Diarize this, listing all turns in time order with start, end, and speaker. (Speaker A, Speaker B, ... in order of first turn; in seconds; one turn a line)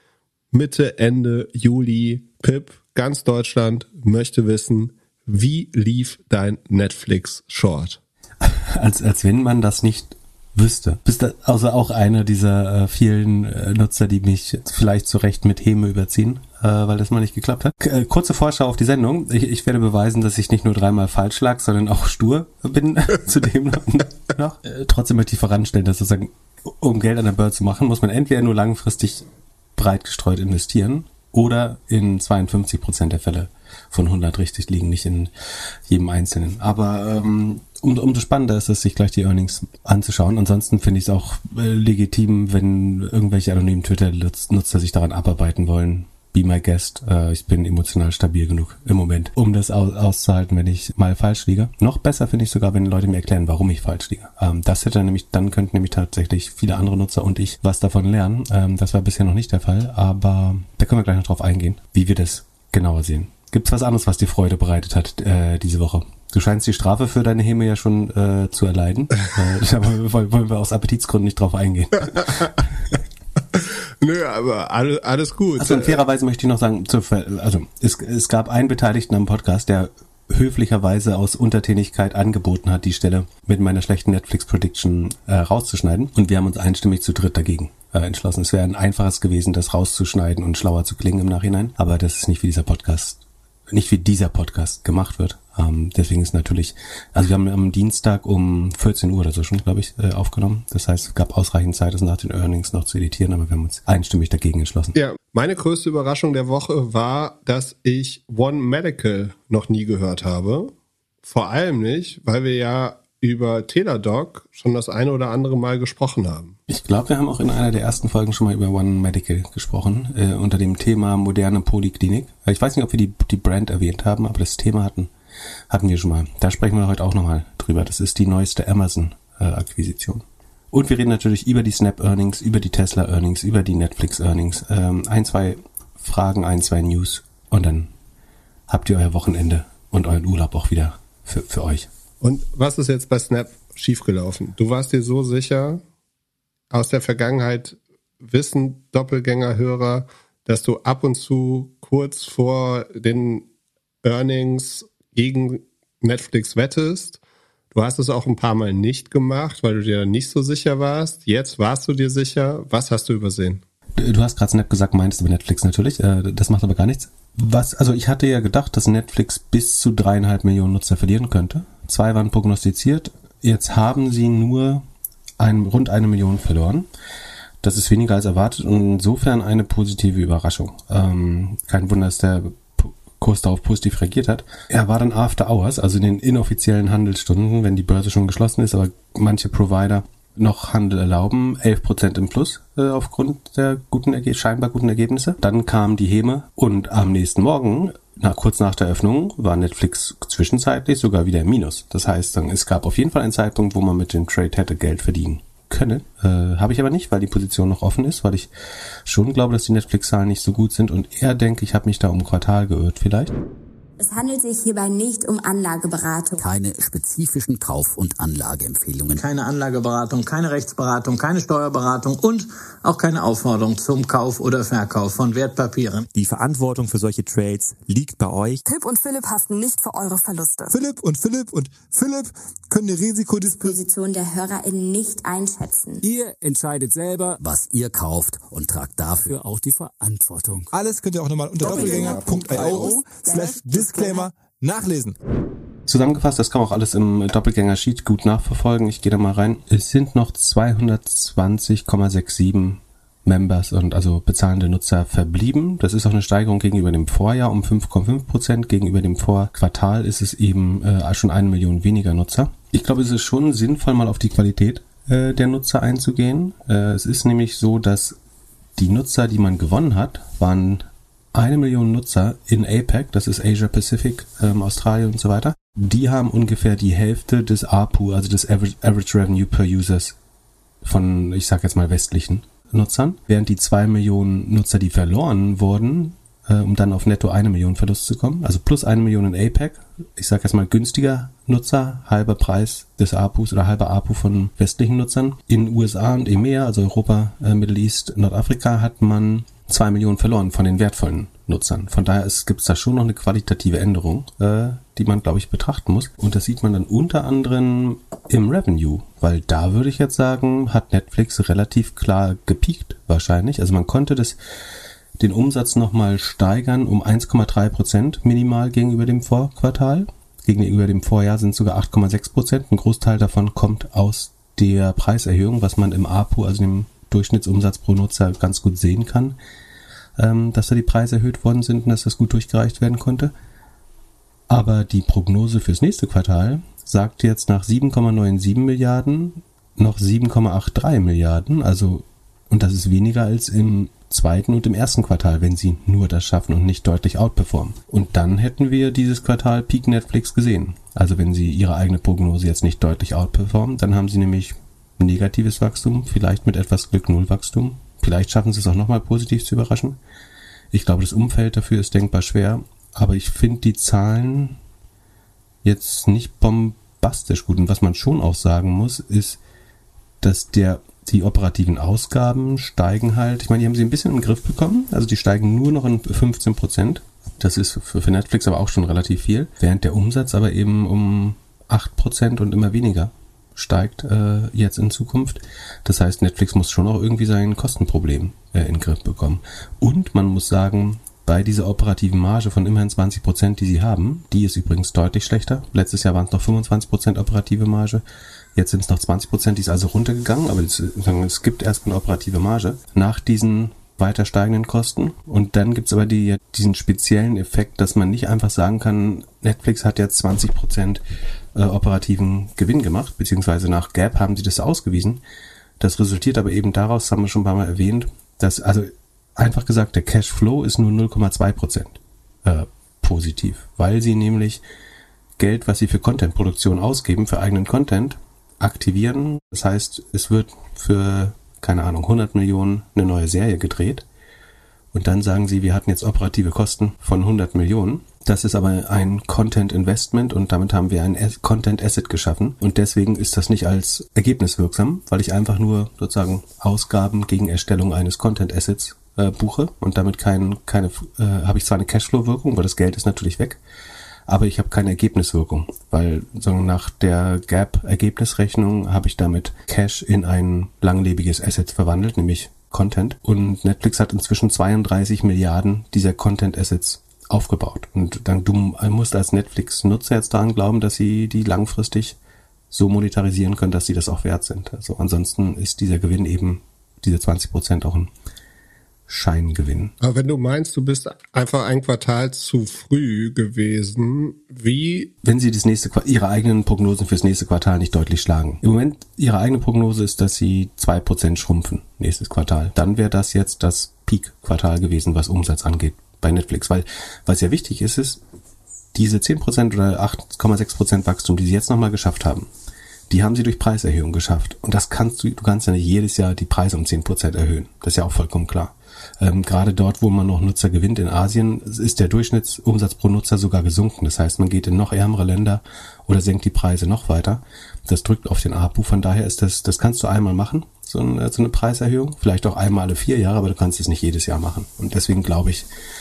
Speaker A: 0.5-8.0
Speaker B: 8.4-35.3
Speaker B: 35.9-72.7
Speaker A: 73.5-76.0
Speaker B: 75.6-105.0
Speaker A: 105.0-110.7
Speaker A: 111.2-116.6
Speaker B: 116.7-125.1
Speaker B: 125.7-137.9
Speaker B: 138.7-141.9
Speaker A: 142.2-145.8
Speaker A: 146.7-153.5
Speaker A: 154.0-157.2
Speaker A: 157.7-163.6
Speaker B: 164.0-174.9
Speaker B: 175.4-176.9
Speaker B: 177.6-208.5
Speaker B: 209.1-213.3
Speaker C: 214.0-216.4
Speaker D: 216.4-219.2
Speaker E: 219.2-226.1
Speaker F: 226.1-228.6
Speaker C: 228.7-230.8
Speaker G: 230.7-233.8
Speaker C: 233.6-236.1
Speaker G: 236.1-237.0
Speaker D: 237.3-240.7
Speaker G: 240.7-245.1
Speaker C: 241.6-244.3
Speaker B: 245.9-268.2
Speaker B: 268.8-280.2
Speaker B: 280.8-314.4
Speaker B: 315.2-329.4
Speaker B: 330.2-333.3
Speaker B: 334.5-360.0
Speaker B: 360.7-364.6
Speaker B: 365.6-369.4
Speaker B: 370.2-398.0
Speaker B: 398.6-411.0
Speaker B: 411.6-415.2
Speaker B: 415.8-424.6
Speaker B: 425.4-434.1
Speaker B: 434.9-453.6
Speaker B: 454.3-472.2
Speaker B: 472.7-478.1
Speaker B: 479.1-479.9
Speaker A: 480.0-485.1
Speaker B: 485.2-498.2
Speaker B: 498.9-502.5
Speaker B: 503.1-525.7